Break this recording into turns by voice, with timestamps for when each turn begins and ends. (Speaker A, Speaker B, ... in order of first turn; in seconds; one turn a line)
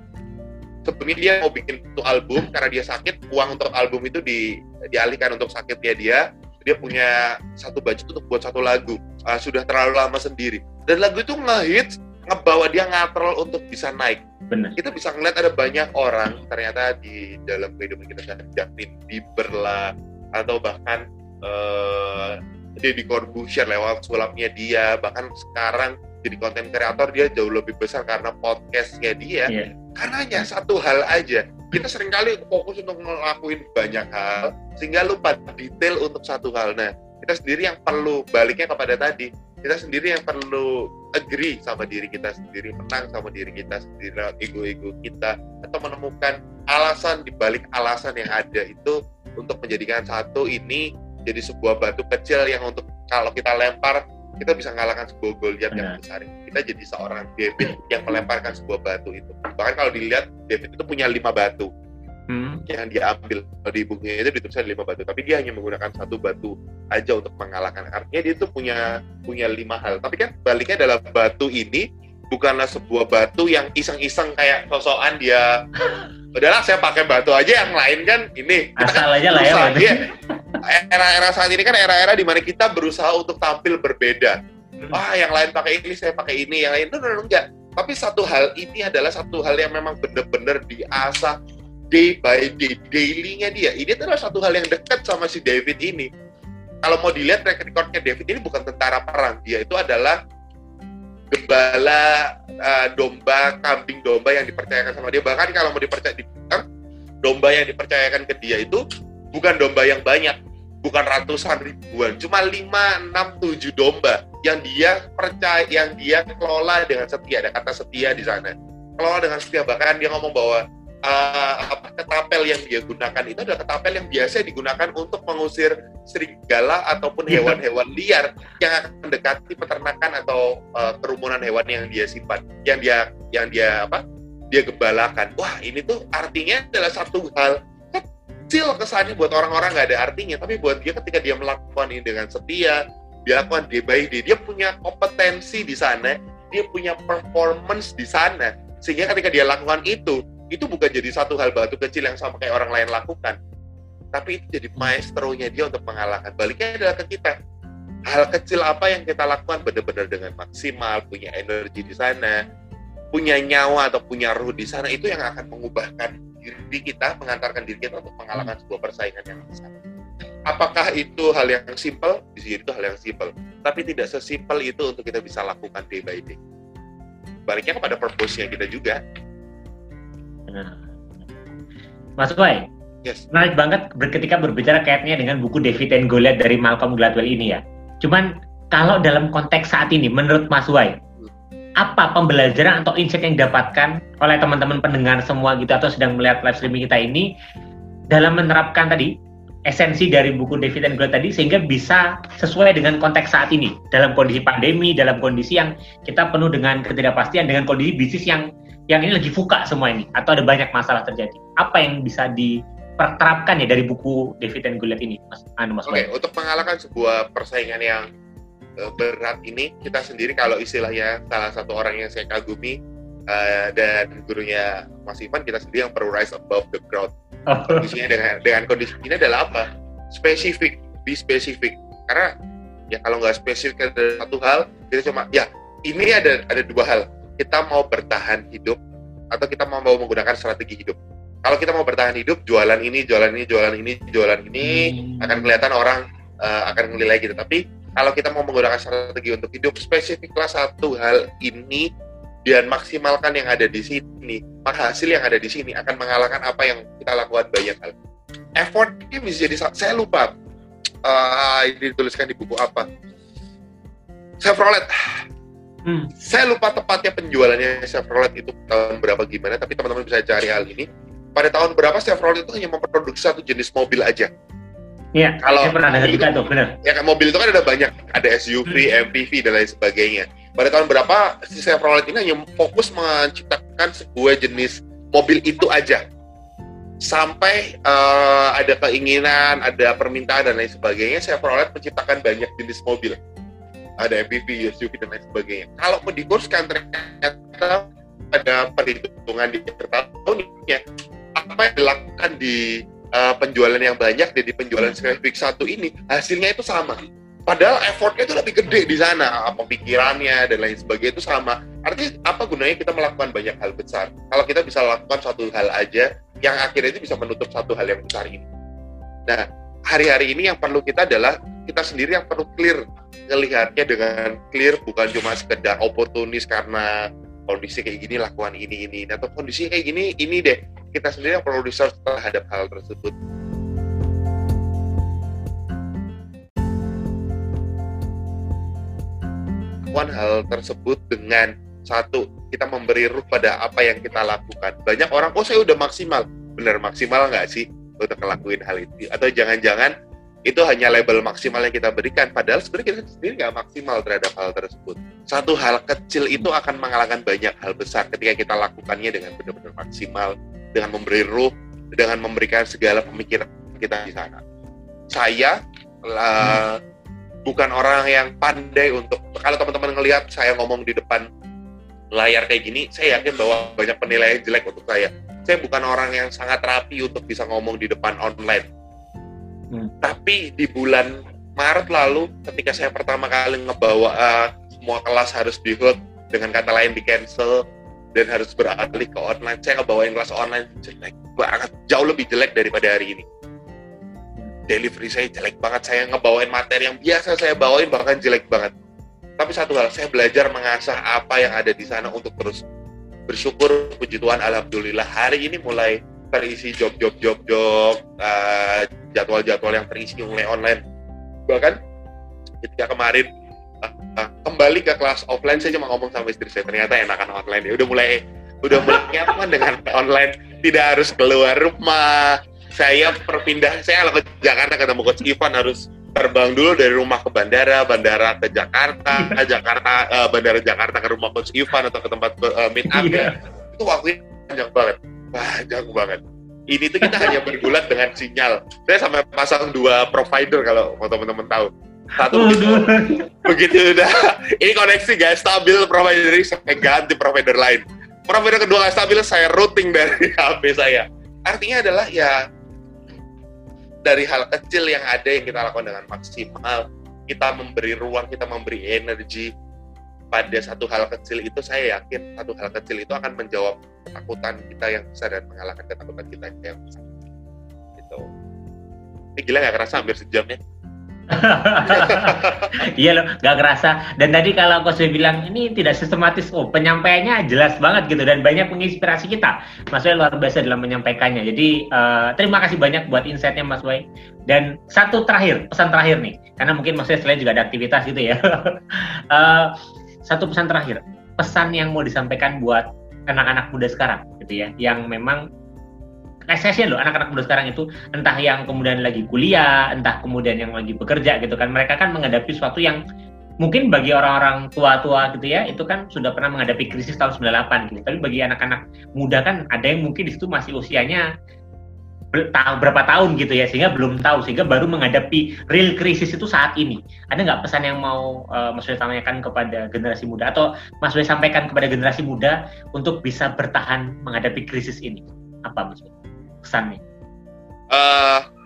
Speaker A: 0.8-14.2
Speaker A: 14.8-61.7
Speaker B: 55.7-56.0
Speaker B: 62.3-62.6
Speaker A: 62.7-75.5
Speaker A: 76.3-80.0
Speaker B: 78.8-80.0
Speaker A: 80.7-84.4
Speaker A: 84.9-91.3
Speaker A: 91.9-96.1
Speaker A: 96.8-100.2
Speaker A: 101.3-106.6
Speaker A: 107.2-108.8
Speaker A: 109.3-134.0
Speaker B: 127.3-127.6
Speaker A: 134.5-153.3
Speaker A: 154.1-157.3
Speaker A: 158.1-162.4
Speaker A: 163.1-169.7
Speaker A: 170.5-176.4
Speaker A: 177.5-179.0
Speaker B: 180.5-181.3
Speaker B: 182.2-182.6
Speaker B: 183.3-190.9
Speaker B: 191.8-197.3
Speaker B: 198.1-199.1
Speaker B: 199.7-216.1
Speaker A: 215.9-218.1
Speaker A: 218.8-222.8
Speaker A: 223.3-227.1
Speaker B: 227.5-227.9
Speaker A: 227.7-232.3
Speaker A: 232.9-238.8
Speaker A: 239.3-251.8
Speaker B: 244.6-245.6
Speaker A: 252.5-257.9
Speaker A: 258.6-260.3
Speaker A: 261.0-262.8
Speaker A: 264.4-265.2
Speaker B: 265.9-266.1
Speaker A: 266.2-274.3
Speaker B: 275.1-276.7
Speaker A: 275.4-276.3
Speaker A: 276.8-286.0
Speaker A: 287.0-293.2
Speaker A: 294.0-300.8
Speaker A: 301.4-318.5
Speaker A: 319.3-326.9
Speaker A: 327.5-333.1
Speaker A: 339.9-349.9
Speaker A: 350.5-364.4
Speaker A: 365.1-365.6
Speaker A: 366.1-366.8
Speaker A: 367.4-371.2
Speaker A: 372.1-378.6
Speaker A: 380.0-387.6
Speaker A: 388.1-393.2
Speaker A: 394.7-398.7
Speaker A: 399.4-402.6
Speaker A: 403.3-410.8
Speaker A: 411.5-411.8
Speaker A: 412.6-413.3
Speaker A: 413.8-436.2
Speaker B: 432.9-433.3
Speaker A: 436.7-442.9
Speaker B: 437.0-437.3
Speaker B: 442.3-443.3
Speaker A: 443.4-452.4
Speaker A: 454.1-459.5
Speaker A: 460.3-467.0
Speaker A: 468.0-468.2
Speaker A: 469.4-470.6
Speaker B: 471.3-489.7
Speaker A: 471.8-472.8
Speaker B: 490.2-495.4
Speaker B: 496.5-503.0
Speaker B: 503.6-511.2
Speaker B: 512.3-526.1
Speaker B: 526.6-527.0
Speaker A: 527.9-528.4